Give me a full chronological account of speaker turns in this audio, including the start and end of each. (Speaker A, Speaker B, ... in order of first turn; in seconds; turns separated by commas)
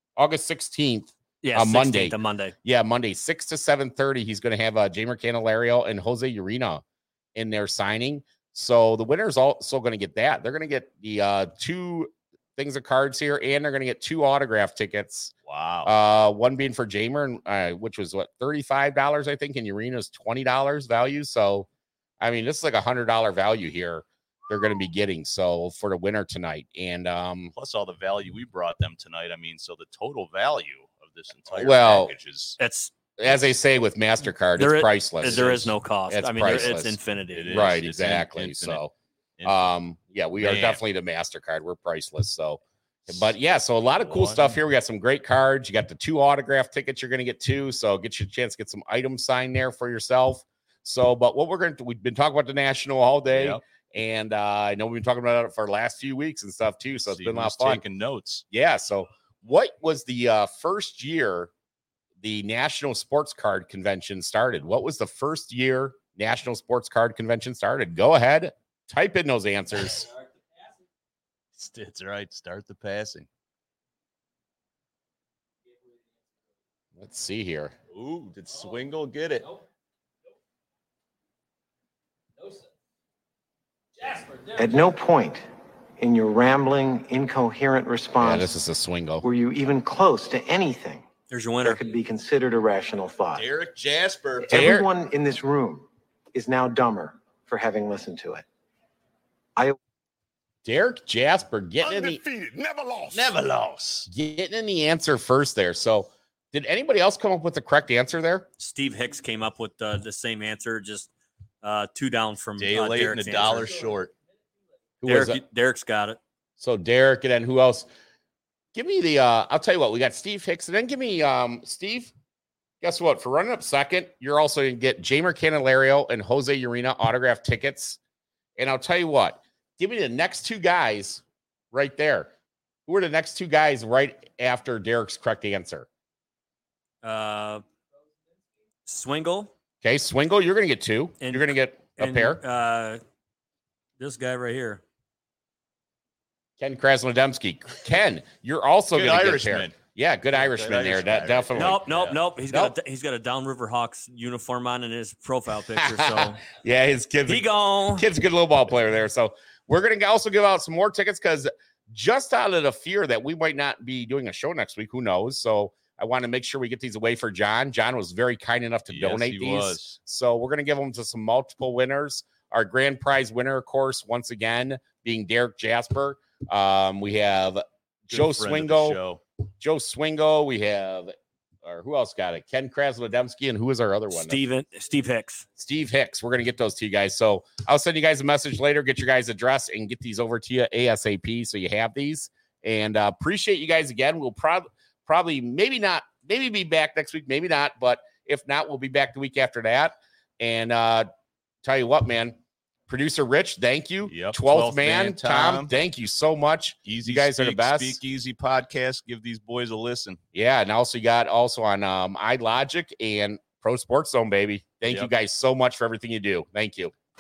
Speaker A: 0.2-6.8, Speaker B: 1.4-2.5, Speaker A: 7.3-15.3, Speaker C: 15.5-15.9, Speaker A: 15.8-21.7, Speaker A: 22.2-27.5, Speaker C: 27.5-32.6, Speaker A: 31.5-32.1, Speaker B: 32.6-32.9, Speaker A: 33.2-37.0, Speaker B: 34.6-37.8, Speaker C: 37.3-38.8, Speaker A: 37.5-38.9, Speaker C: 39.4-39.7, Speaker A: 39.5-57.8, Speaker C: 40.4-40.8, Speaker C: 44.0-44.6, Speaker C: 53.3-53.6, Speaker C: 57.0-58.5, Speaker A: 58.5-61.5, Speaker A: 62.2-70.1, Speaker C: 71.6-73.3, Speaker A: 77.0-77.7, Speaker C: 77.9-79.5, Speaker D: 84.4-85.4, Speaker D: 86.0-88.5, Speaker A: 88.2-89.2, Speaker D: 89.2-91.0, Speaker B: 91.3-91.9, Speaker D: 91.6-93.5, Speaker C: 93.3-94.7, Speaker D: 94.4-98.5, Speaker A: 94.5-94.9, Speaker A: 100.7-102.2, Speaker C: 101.9-104.1, Speaker A: 104.1-108.5, Speaker B: 108.6-111.1, Speaker B: 111.6-113.9, Speaker C: 112.6-114.1, Speaker A: 115.0-115.4, Speaker B: 115.1-116.2, Speaker A: 116.6-117.9, Speaker A: 118.7-122.1, Speaker A: 122.8-128.0, Speaker A: 128.6-132.3, Speaker A: 132.9-135.9, Speaker B: 137.0-137.6, Speaker B: 138.9-139.5, Speaker A: 139.8-142.4, Speaker B: 141.2-143.0, Speaker B: 144.0-144.8, Speaker A: 146.6-151.8, Speaker C: 148.9-149.8, Speaker C: 150.3-152.2, Speaker B: 151.6-156.4, Speaker A: 155.8-179.0, Speaker B: 157.3-158.1, Speaker C: 168.9-170.0, Speaker C: 178.1-179.2, Speaker A: 179.6-184.4, Speaker B: 184.1-185.4, Speaker A: 185.6-201.1, Speaker A: 201.6-202.4, Speaker A: 202.9-208.0, Speaker C: 204.1-205.7, Speaker C: 206.9-210.2, Speaker A: 210.3-216.9